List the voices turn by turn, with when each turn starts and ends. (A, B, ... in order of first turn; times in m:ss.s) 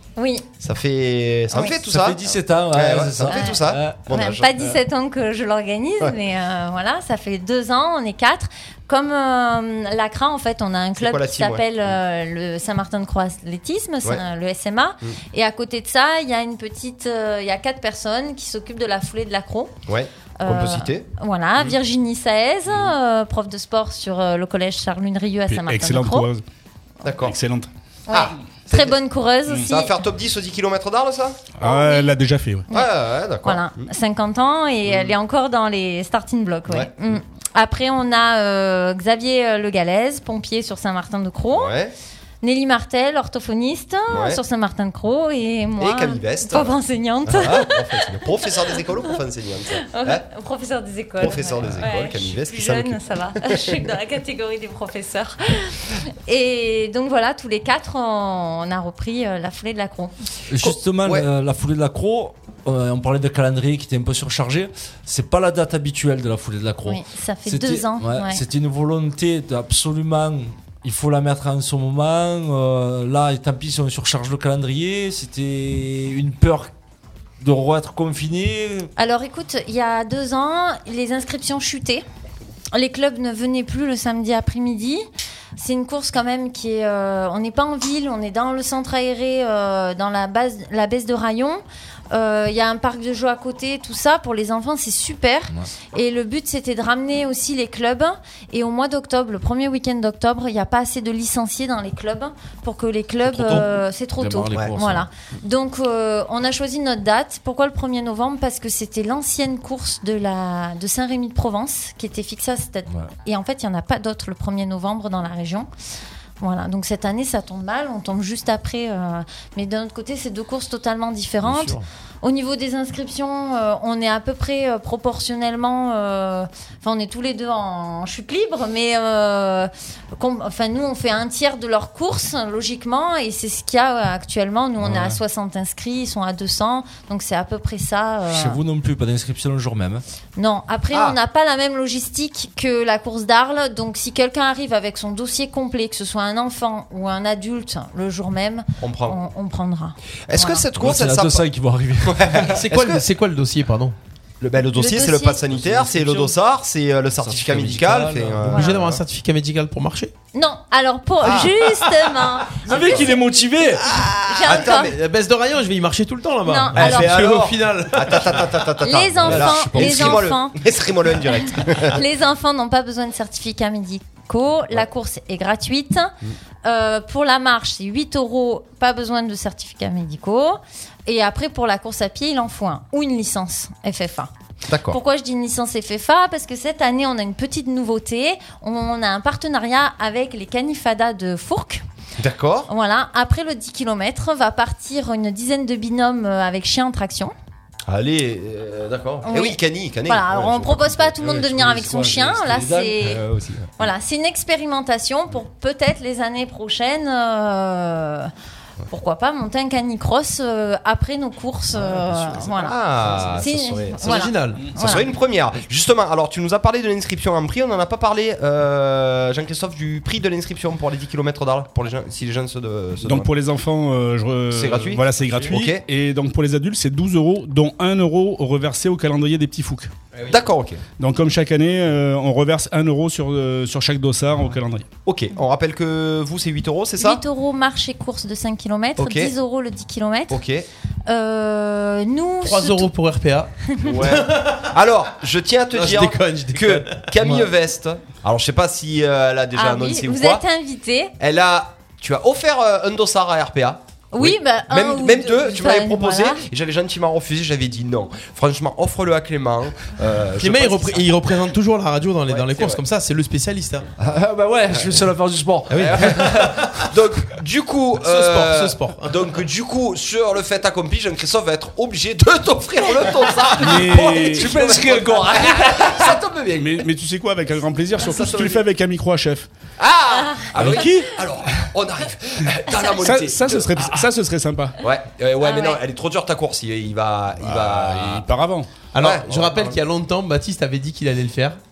0:00.2-0:00.5 A
0:00.6-0:02.2 B
0:01.5-0:01.8 A
0:01.8-0:04.0 C
0:02.7-0:04.5 B
0:03.3-0:19.7 A
0:11.0-0:12.0 B
0:19.9-0:21.1 B
0:20.4-0:26.3 A
0:25.5-0:26.4 D
0:27.0-0:27.4 B
0:27.2-0:27.7 D
0:28.1-0:29.9 A
0:28.1-0:29.0 B
0:29.6-0:31.4 B
0:31.6-0:32.7 D
0:31.6-0:32.1 A
0:32.7-0:33.8 B
0:33.4-0:41.8 A
0:34.9-0:35.2 B
0:41.5-0:41.9 B
0:42.4-0:48.5 A
0:44.1-0:44.4 B
0:45.8-0:50.2 B
0:49.8-1:00.1 A
0:51.2-0:53.9 B
1:00.5-1:16.7 C
1:00.6-1:01.3 B
1:06.8-1:08.4 A
1:17.4-1:18.9 C
1:19.0-1:22.0 A
1:22.7-1:25.0 A
1:25.6-1:55.7 A
1:43.2-1:45.1 C
1:56.4-2:18.6 A
2:01.4-2:01.9 C
2:14.8-2:15.2 C
2:18.3-2:20.0 C
2:20.4-2:30.6 A
2:20.9-2:21.2 B
2:28.8-2:29.2 B
2:30.3-2:31.4 B
2:30.8-2:32.6 C
2:32.0-2:33.0 B
2:32.5-2:34.0 E
2:34.4-2:39.0 B
2:34.7-2:35.5 A
2:35.5-2:36.3 C
2:37.2-2:38.5 C
2:38.5-2:40.1 E
2:38.5-2:38.8 A
2:40.3-2:43.1 A
2:41.2-2:41.5 B
2:41.4-2:42.3 E
2:42.6-2:43.9 C
2:42.7-2:43.1 B
2:43.8-2:44.9 B
2:44.3-2:44.9 A
2:44.5-2:48.7 E
2:46.4-2:47.2 A
2:46.7-2:52.0 B
2:48.8-2:50.6 A
2:49.2-2:50.0 C
2:51.3-3:04.3 A
3:04.7-3:05.0 B
3:04.9-3:11.8 A
3:12.2-3:12.7 B
3:12.7-3:17.3 A
3:17.9-3:21.2 B
3:19.2-3:23.2 A
3:21.2-3:23.0 C
3:23.0-3:23.9 B
3:23.8-3:28.3 A
3:28.9-3:35.1 A
3:31.8-3:43.3 B
3:34.0-3:34.7 E
3:43.0-3:49.9 D
3:44.5-3:45.8 B
3:50.1-3:50.4 E
3:50.3-3:50.8 B
3:51.0-3:54.9 D
3:55.1-3:57.2 B
3:57.0-4:00.4 A
3:59.0-3:59.3 B
4:00.3-4:00.7 B
4:01.1-4:02.9 A
4:02.4-4:04.8 E
4:03.7-4:04.0 A
4:03.8-4:10.4 B
4:05.7-4:07.3 E
4:09.5-4:11.1 A
4:11.2-4:21.2 B
4:14.1-4:16.4 A
4:20.4-4:23.9 E
4:22.3-4:22.8 B
4:24.0-4:26.7 C
4:24.7-4:25.0 B
4:25.7-4:26.9 E
4:25.7-4:36.9 B
4:28.0-4:29.3 E
4:33.6-4:34.5 D
4:33.9-4:36.2 C
4:36.6-4:39.5 D
4:38.0-4:38.7 B
4:39.8-4:44.1 B
4:40.3-4:40.8 A
4:40.6-4:41.1 D
4:43.0-4:44.8 D
4:44.8-4:48.3 B
4:45.4-4:45.8 A
4:47.4-4:48.7 D
4:48.9-4:51.6 E
4:49.0-4:49.8 B